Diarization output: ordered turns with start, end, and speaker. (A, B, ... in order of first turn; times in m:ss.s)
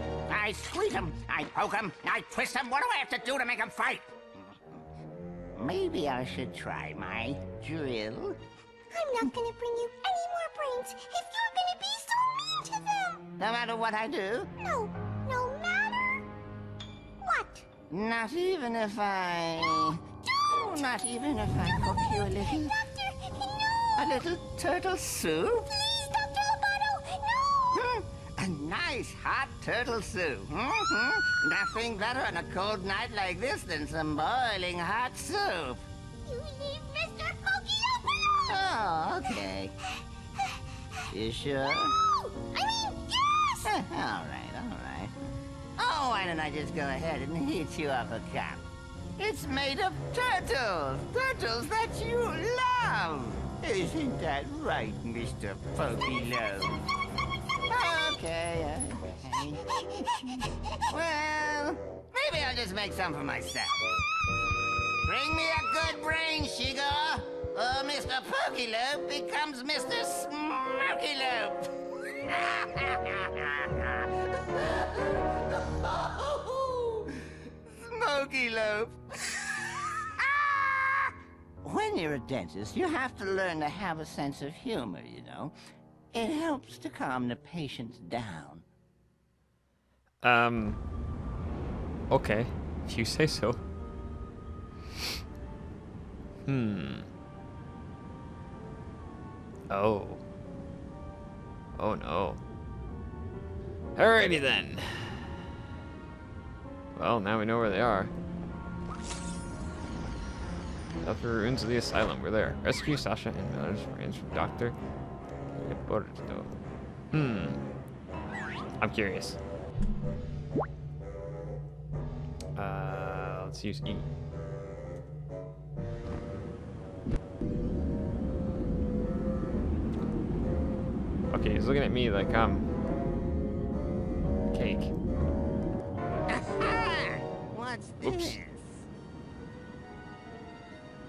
0:00.3-0:04.2 A
0:05.5-0:08.4 A
0:08.9-0:13.2 B
0:13.4-0:14.5 A
0:14.6-0:16.2 B
0:17.2-0:17.6 B
0:17.9-0:22.7 A
0:20.2-0:21.0 B
0:21.6-0:24.1 B
0:24.0-0:25.7 A
0:25.7-0:27.8 B
0:27.7-0:35.8 A
0:36.2-0:38.5 B
0:38.5-0:39.7 A
0:40.0-0:41.0 B
0:41.1-0:42.0 A
0:42.0-0:43.7 B
0:43.6-0:45.1 A
0:45.8-0:56.8 A
0:57.7-0:59.8 A
1:00.3-1:03.8 A
1:00.4-1:00.7 B
1:05.0-1:21.1 A
1:21.6-1:25.5 A
1:26.1-1:28.6 A
1:30.2-1:30.8 C
1:32.1-1:33.6 C
1:36.5-1:37.1 C
1:39.7-1:40.2 C
1:41.8-1:42.4 C
1:44.0-1:45.4 C
1:47.0-1:48.1 C
1:51.0-1:54.8 C
1:55.6-1:56.5 C
1:57.1-1:57.6 C
1:58.8-1:59.4 C
2:02.6-2:04.1 C
2:11.3-2:12.7 C
2:14.5-2:14.9 C
2:16.3-2:18.8 A
2:18.0-2:18.4 C